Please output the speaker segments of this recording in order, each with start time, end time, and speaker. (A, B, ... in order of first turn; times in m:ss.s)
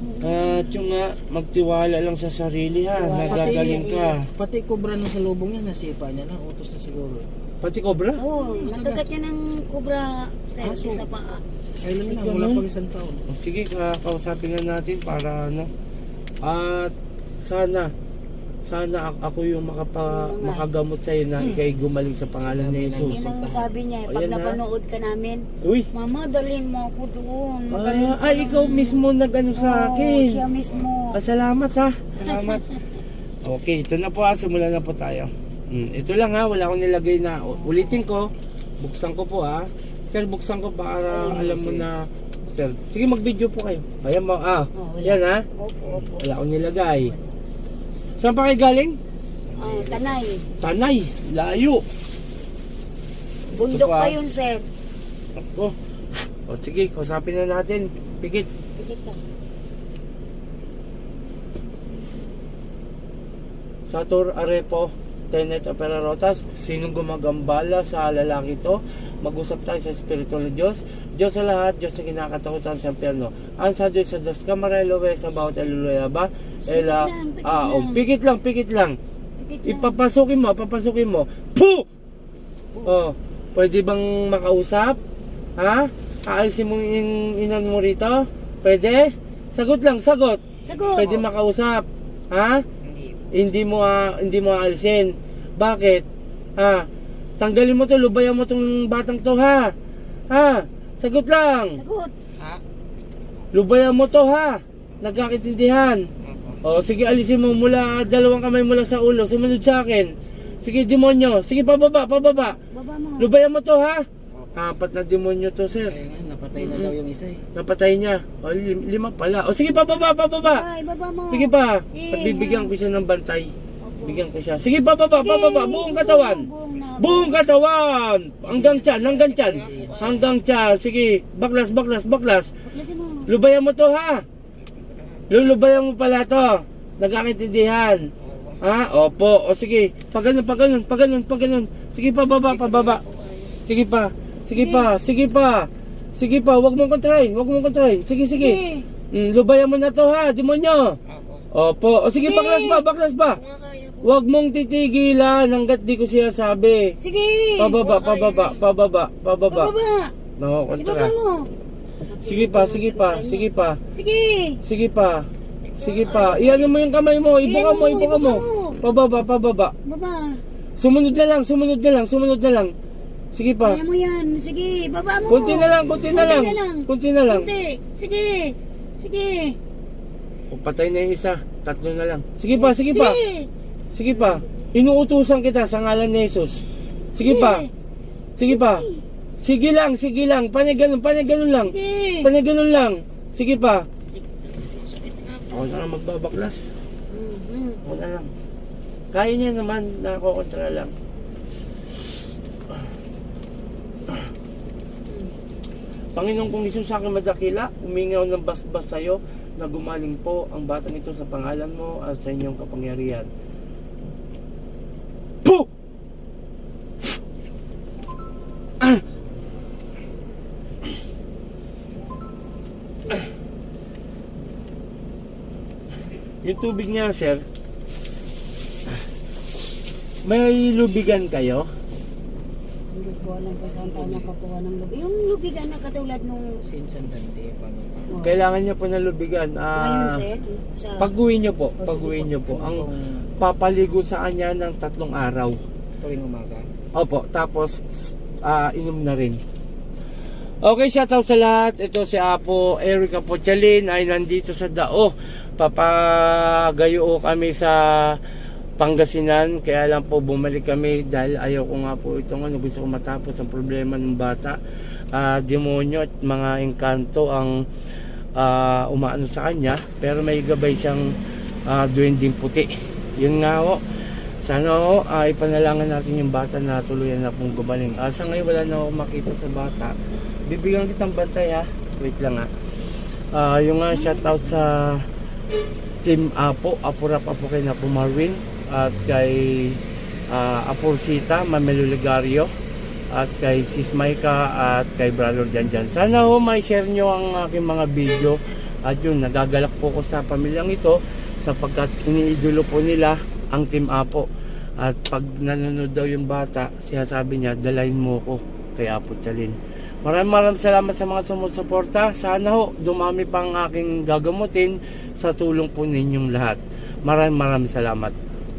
0:00.2-0:04.2 A
0:00.3-0:00.7 B
0:02.8-0:04.1 B
0:03.2-0:07.3 C
0:07.6-0:08.2 A
0:08.2-0:11.4 B
0:08.4-0:09.0 C
0:10.6-0:11.1 C
0:11.8-0:13.2 C
0:12.1-0:12.6 A
0:13.3-0:15.7 A
0:16.4-0:17.9 A
0:18.7-0:23.2 A
0:20.0-0:20.6 B
0:21.4-0:21.6 C
0:22.3-0:23.7 C
0:23.0-0:31.2 B
0:24.1-0:24.6 A
0:25.6-0:25.9 A
0:27.7-0:30.4 A
0:30.6-0:30.8 D
0:31.1-0:32.6 A
0:32.2-0:32.7 B
0:33.4-0:45.4 A
0:37.5-0:38.0 B
0:41.1-0:41.8 B
0:44.8-0:46.3 B
0:46.2-0:47.1 A
0:48.2-0:49.0 A
0:49.5-0:50.2 C
0:49.6-0:50.5 B
0:50.6-0:51.8 A
0:53.5-0:54.7 B
0:53.7-0:54.2 A
0:55.4-0:55.7 A
0:56.4-0:58.5 A
0:58.8-0:59.2 B
1:03.9-1:19.0 A
1:16.6-1:18.0 B
1:19.4-1:20.0 B
1:19.6-1:21.8 A
1:22.8-1:25.0 A
1:25.6-1:30.4 A
1:30.6-1:31.2 B
1:30.9-1:32.6 A
1:32.8-1:33.4 D
1:33.3-1:36.0 A
1:36.6-1:36.8 A
1:37.4-1:39.7 A
1:40.3-1:41.8 A
1:41.8-1:42.1 B
1:42.4-1:42.6 D
1:43.5-1:46.0 A
1:46.2-1:46.6 D
1:46.6-1:52.6 A
1:50.4-1:50.6 B
1:52.7-1:53.3 B
1:53.2-1:56.0 A
1:55.9-1:57.4 C
1:56.6-1:56.9 A
1:57.5-2:00.6 A
2:00.4-2:02.7 B
2:01.3-2:03.5 A
2:03.8-2:04.2 B
2:04.0-2:06.5 A
2:05.1-2:07.5 B
2:07.0-2:12.5 A
2:08.5-2:10.3 D
2:09.6-2:10.2 C
2:12.6-2:13.2 B
2:13.3-2:14.2 A
2:14.6-2:15.3 D
2:15.3-2:18.0 A
2:18.2-2:18.6 D
2:18.6-2:23.0 A
2:22.5-2:23.6 D
2:23.6-2:28.6 A
2:24.5-2:24.9 B
2:28.4-2:28.9 B
2:29.1-2:31.0 A
2:31.1-2:31.5 D
2:31.5-2:33.4 A
2:32.2-2:32.8 B
2:33.3-2:34.2 D
2:34.0-2:37.0 A
2:37.0-2:37.8 B
2:37.6-2:39.7 A
2:37.8-2:38.6 D
2:39.5-2:40.1 B
2:40.4-2:41.1 A
2:40.8-2:41.5 B
2:42.1-2:44.6 B
2:42.2-2:43.8 A
2:44.6-2:45.3 A
2:45.7-2:46.6 D
2:45.8-2:49.7 A
2:46.3-2:46.6 B
2:47.4-2:48.8 B
2:49.8-2:50.4 B
2:50.8-2:52.7 A
2:53.3-2:53.8 A
2:53.6-2:59.6 B
2:55.3-2:57.5 A
3:00.5-3:03.2 A
3:02.5-3:03.5 B
3:03.9-3:06.6 A
3:04.1-3:04.4 B
3:07.1-3:07.6 A
3:07.2-3:07.7 B
3:08.4-3:08.9 A
3:08.5-3:09.0 B
3:09.4-3:13.9 A
3:11.6-3:12.3 B
3:14.1-3:15.8 D
3:15.5-3:16.6 A
3:17.1-3:17.8 B
3:17.8-3:18.3 A
3:19.1-3:20.9 A
3:25.1-3:25.3 B
3:26.2-3:33.3 A
3:46.4-3:47.4 A
3:50.2-3:51.7 A
3:52.9-3:56.5 B
3:53.3-3:54.3 C
3:56.6-3:58.2 C
3:58.1-3:58.4 B
3:58.2-4:00.2 A
3:59.8-4:01.1 B
4:01.0-4:02.8 A
4:01.8-4:02.3 B
4:02.4-4:03.3 C
4:03.4-4:05.6 A
4:06.0-4:06.7 C
4:06.9-4:09.4 A
4:10.6-4:18.2 A
4:18.8-4:24.6 A
4:25.1-4:27.5 A
4:28.4-4:31.1 A
4:31.7-4:39.9 A
4:40.4-4:45.0 A
4:44.0-4:44.3 B
4:46.0-4:52.5 A
4:53.1-5:04.3 A
5:04.8-5:18.1 A